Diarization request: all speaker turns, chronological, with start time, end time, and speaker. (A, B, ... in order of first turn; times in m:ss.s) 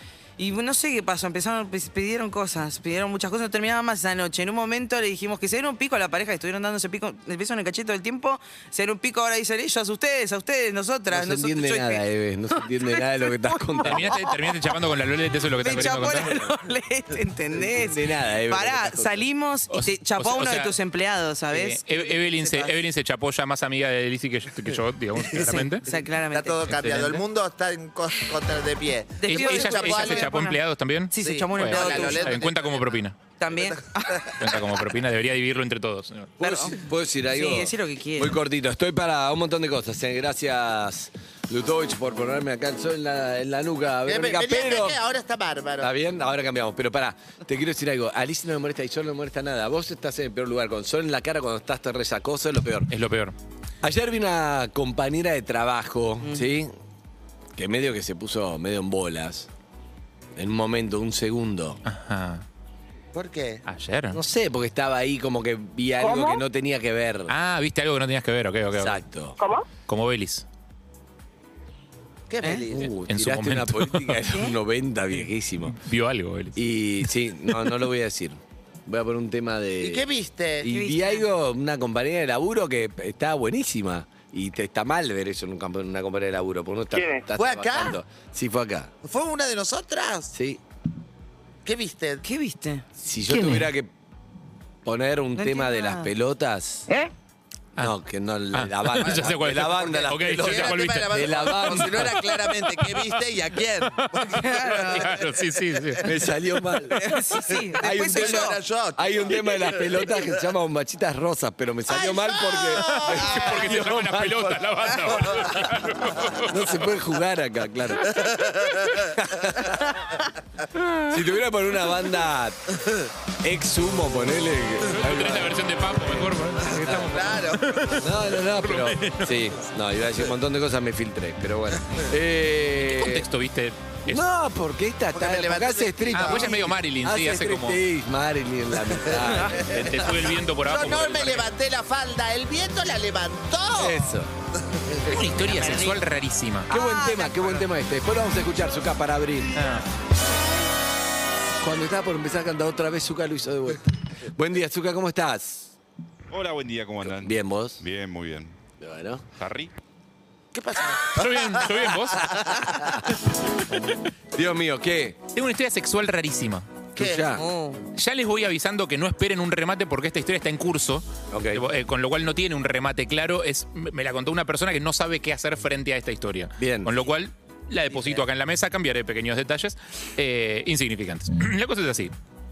0:00.4-0:12.0 A
0:11.1-0:14.2 B
0:12.6-0:14.3 A
0:13.8-0:16.3 C
0:15.6-0:22.8 A
0:15.7-0:16.5 B
0:17.5-0:19.2 B
0:19.7-0:20.8 C
0:21.5-0:25.8 C
0:25.4-0:26.9 A
0:25.9-0:30.3 D
0:26.7-0:27.2 C
0:29.2-0:30.6 A
0:29.3-0:33.2 C
0:31.1-0:32.4 A
0:31.2-0:32.8 D
0:33.4-0:34.3 A
0:34.4-0:36.3 C
0:36.4-0:36.8 A
0:36.4-0:45.0 B
0:37.3-0:38.4 A
0:44.1-0:45.9 D
0:45.8-0:52.9 B
0:52.9-0:53.4 C
0:53.8-0:56.7 B
0:57.6-0:59.5 B
1:00.4-1:01.8 B
1:01.8-1:02.4 C
1:03.1-1:03.6 D
1:03.7-1:04.2 C
1:04.1-1:07.3 B
1:07.3-1:09.0 C
1:08.8-1:09.4 B
1:09.9-1:10.4 C
1:12.3-1:12.9 D
1:12.4-1:12.7 A
1:12.7-1:15.8 B
1:13.0-1:14.2 C
1:15.7-1:16.6 C
1:16.6-1:20.1 B
1:19.8-1:20.7 D
1:20.6-1:28.9 B
1:20.7-1:21.2 A
1:27.4-1:28.0 D
1:29.0-1:30.3 D
1:30.3-1:30.6 B
1:31.6-1:32.2 D
1:32.2-1:32.8 A
1:33.0-1:33.9 B
1:34.8-1:36.9 B
1:35.4-1:36.1 A
1:37.8-1:42.2 B
1:38.5-1:42.6 C
1:39.0-1:45.9 D
1:44.0-1:46.1 C
1:44.4-1:45.1 A
1:46.0-1:54.7 B
1:46.9-1:48.6 A
1:47.5-1:50.3 D
1:52.0-1:53.3 D
1:52.8-1:56.8 C
1:56.4-1:58.2 B
1:58.1-1:59.8 D
1:59.2-1:59.8 B
2:01.1-2:02.7 B
2:03.4-2:05.6 B
2:04.9-2:09.6 C
2:06.7-2:07.1 B
2:06.8-2:07.7 D
2:08.0-2:13.3 B
2:12.8-2:14.2 C
2:14.1-2:20.2 B
2:15.1-2:16.7 D
2:16.1-2:17.8 C
2:19.0-2:24.2 D
2:19.6-2:21.5 C
2:23.7-2:24.3 B
2:24.7-2:25.9 D
2:25.1-2:26.7 C
2:26.7-2:27.7 A
2:26.7-2:29.6 B
2:29.6-2:29.8 C
2:31.6-2:35.7 B
2:36.3-2:38.6 E
2:37.1-2:37.8 B
2:38.8-2:39.2 B
2:39.4-2:39.7 E
2:40.5-2:43.0 D
2:41.2-2:42.7 C
2:44.3-2:45.2 B
2:45.4-2:46.7 C
2:47.0-2:47.4 D
2:47.0-2:47.4 B
2:47.3-2:47.8 A
2:48.0-3:02.1 C
2:51.3-2:51.6 B
2:56.6-2:57.0 B